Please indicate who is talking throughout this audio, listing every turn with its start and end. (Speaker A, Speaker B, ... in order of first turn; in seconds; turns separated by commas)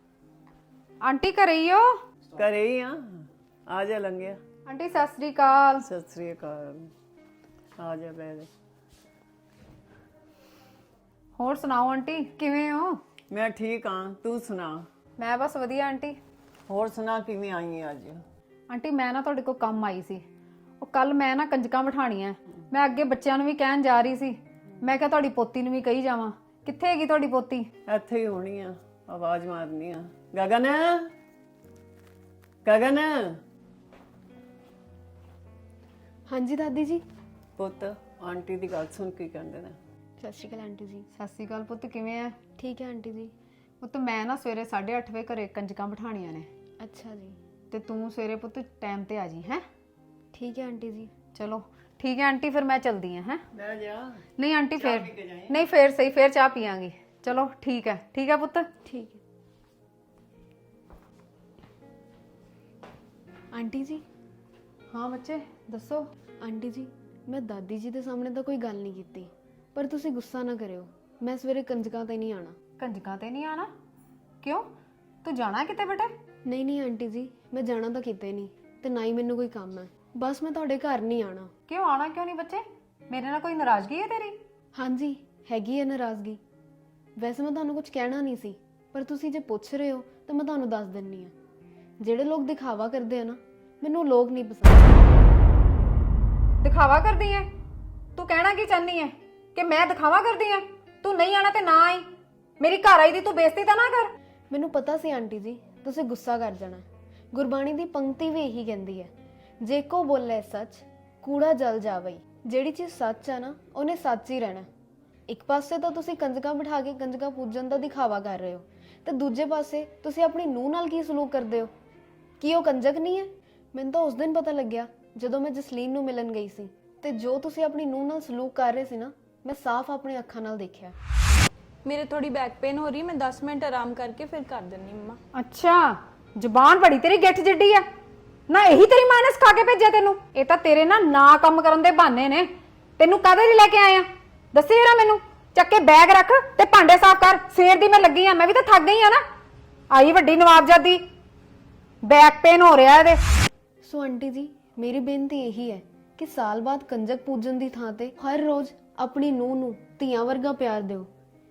Speaker A: 1.0-1.9, Speaker B: 2.4-3.0, Speaker B: 3.7-4.4, Speaker A: 4.7-5.9, Speaker B: 5.8-6.9, Speaker B: 7.8-8.5, Speaker A: 11.4-13.0, Speaker B: 13.3-14.9, Speaker A: 15.2-16.2, Speaker B: 16.7-18.2, Speaker A: 18.7-20.2, Speaker A: 20.8-27.7, Speaker B: 27.9-31.1, Speaker B: 32.6-33.4, Speaker C: 36.3-37.0, Speaker B: 37.6-39.8, Speaker C: 40.2-41.1, Speaker A: 41.1-42.4, Speaker C: 42.6-43.3, Speaker A: 43.8-46.5, Speaker C: 46.8-47.4, Speaker A: 47.7-49.6, Speaker C: 50.3-51.1, Speaker A: 51.3-53.4, Speaker B: 53.5-54.2, Speaker A: 54.4-58.7, Speaker B: 54.8-55.6, Speaker C: 58.9-59.2, Speaker C: 63.5-64.0, Speaker A: 64.9-66.1, Speaker C: 66.4-72.6, Speaker A: 72.8-73.7, Speaker A: 74.4-74.7, Speaker A: 75.2-76.1, Speaker C: 76.5-81.5, Speaker A: 81.7-84.4, Speaker C: 84.8-86.4, Speaker C: 87.2-91.3, Speaker C: 92.0-95.0, Speaker A: 96.6-97.5, Speaker A: 98.2-102.1, Speaker A: 102.6-104.1, Speaker C: 104.5-109.1, Speaker C: 109.6-114.7, Speaker C: 115.3-121.7, Speaker C: 122.4-130.9, Speaker D: 131.8-135.2, Speaker A: 135.3-137.9, Speaker A: 138.5-149.2, Speaker A: 149.9-151.0, Speaker A: 152.0-153.2, Speaker C: 153.8-161.1